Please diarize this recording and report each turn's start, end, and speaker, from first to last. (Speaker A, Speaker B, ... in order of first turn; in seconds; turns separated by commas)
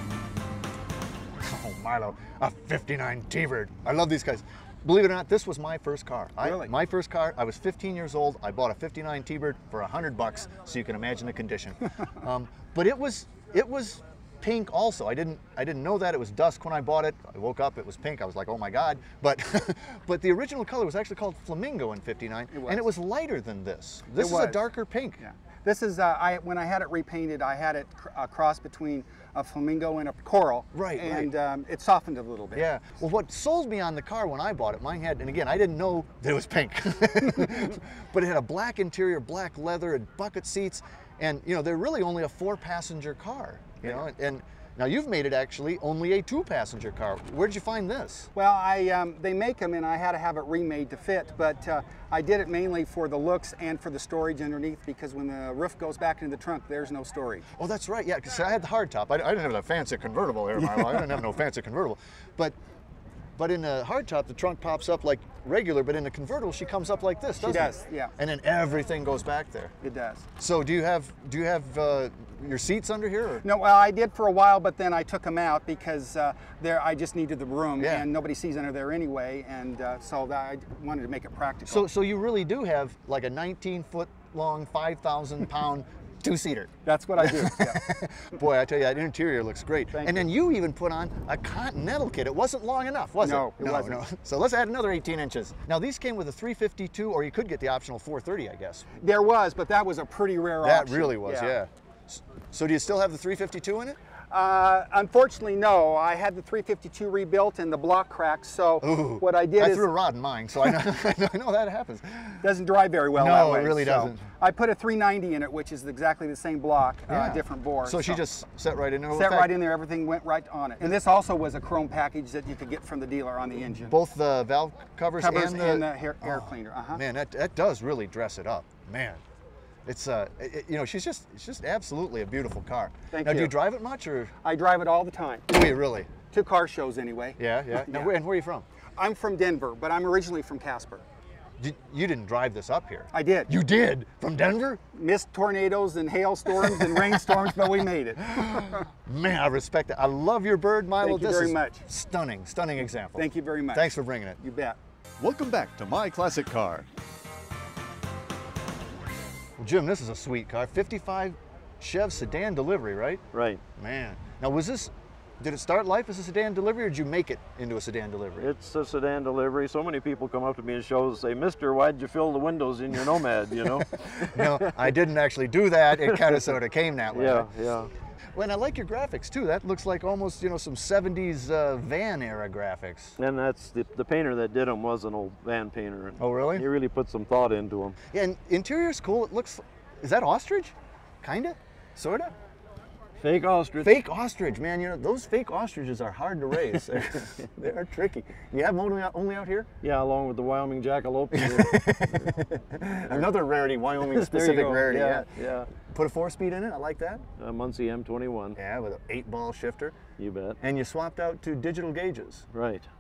Speaker A: 1.4-25.2, Speaker B: 6.4-6.7, Speaker B: 22.5-22.9, Speaker B: 24.1-24.6, Speaker B: 25.2-32.7, Speaker A: 30.7-31.3, Speaker A: 32.5-48.3, Speaker B: 48.4-57.5, Speaker A: 57.6-62.5, Speaker A: 63.4-69.7, Speaker B: 67.4-68.1, Speaker B: 69.8-70.3, Speaker A: 70.4-73.5, Speaker B: 73.4-81.9, Speaker A: 77.8-78.1, Speaker A: 81.7-98.9, Speaker B: 86.8-87.8, Speaker B: 89.9-90.3, Speaker B: 93.2-94.0, Speaker B: 99.0-101.6, Speaker A: 100.6-104.0, Speaker B: 104.3-109.9, Speaker A: 108.8-112.5, Speaker B: 112.4-118.2, Speaker A: 113.2-114.2, Speaker A: 117.1-119.6, Speaker B: 119.1-124.0, Speaker A: 123.9-129.2, Speaker B: 125.2-127.0, Speaker A: 129.9-134.3, Speaker B: 133.1-133.5, Speaker B: 134.4-135.5, Speaker A: 135.5-136.1, Speaker B: 136.3-138.2, Speaker A: 137.4-138.7, Speaker B: 139.0-141.0, Speaker A: 141.6-144.8, Speaker B: 143.1-143.5, Speaker B: 144.9-148.8, Speaker A: 146.6-147.5, Speaker A: 148.4-154.4, Speaker B: 151.0-151.8, Speaker B: 153.1-154.8, Speaker A: 155.2-156.9, Speaker A: 159.6-163.2, Speaker C: 163.3-163.6, Speaker A: 163.8-168.5, Speaker C: 168.4-174.9, Speaker A: 174.0-177.5, Speaker C: 176.1-176.4, Speaker C: 177.1-177.9, Speaker A: 178.3-183.2, Speaker C: 183.2-188.0, Speaker A: 186.2-186.7, Speaker A: 188.1-192.3, Speaker C: 193.2-193.9, Speaker A: 193.8-199.7, Speaker C: 199.8-202.3, Speaker A: 201.3-205.3, Speaker C: 203.1-203.3, Speaker C: 204.0-205.7, Speaker A: 205.9-207.3, Speaker C: 207.4-208.6, Speaker A: 208.6-210.0, Speaker C: 210.2-210.6, Speaker A: 210.6-212.5, Speaker C: 212.5-212.9